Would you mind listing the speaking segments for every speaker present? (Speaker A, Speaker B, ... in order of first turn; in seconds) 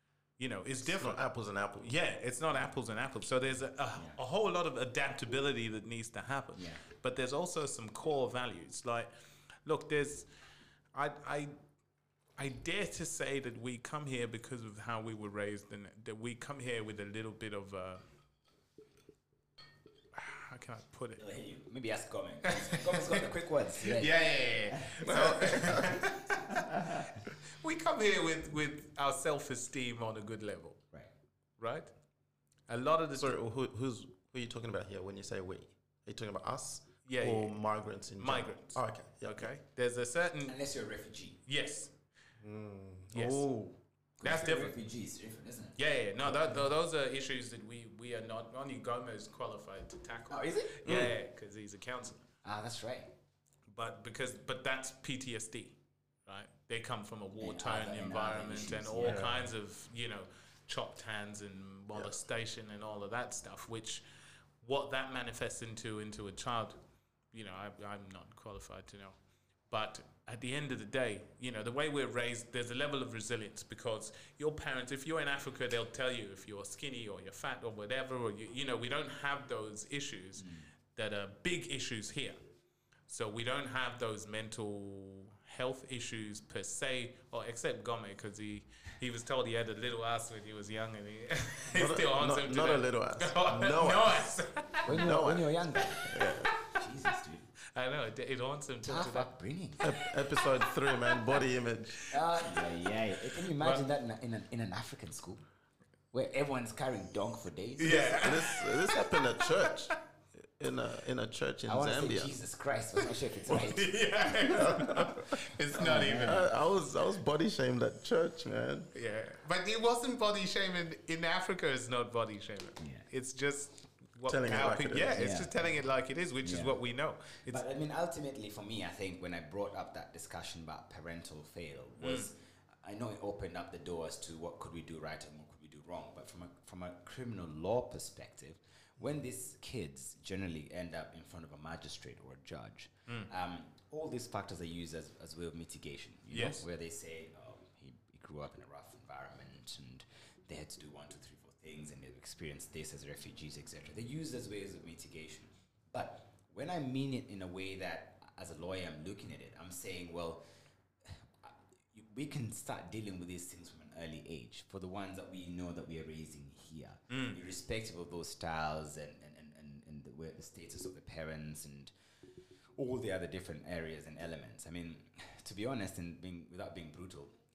Speaker A: 0.4-1.2, 1.8-9.1, 9.6-10.3, 10.9-11.6, 12.4-18.0, 20.1-21.2, 22.5-23.3, 23.8-30.8, 31.6-31.9, 32.7-33.3, 37.0-37.5, 38.2-40.6, 41.5-41.9, 43.1-43.5, 44.2-44.7, 45.8-52.2, 53.7-64.0, 64.6-66.8, 67.3-69.2, 69.7-82.4, 83.1-95.0, 97.7-99.3, 100.0-101.3, 103.4-103.9, 107.8-109.9, 113.5-116.5, 118.9-127.6, 132.0-132.3, 146.3-146.6, 167.1-167.4
Speaker B: 0.8-1.9, 25.0-26.0, 33.1-39.5, 42.4-43.8, 50.8-51.1, 59.0-59.5, 91.7-96.5, 99.8-102.1, 107.9-112.4, 114.5-115.4, 116.2-118.9, 124.3-125.2
Speaker C: 6.5-6.8, 21.2-27.2, 40.5-41.4, 44.2-45.8, 50.3-51.0, 52.4-53.1, 57.4-59.4, 80.4-80.7, 94.9-97.5, 98.8-100.0, 102.1-105.4, 106.1-108.4, 111.7-114.0, 115.7-116.5, 122.8-123.0, 125.0-125.7, 126.4-126.8, 127.5-160.4, 161.1-171.9, 172.8-177.4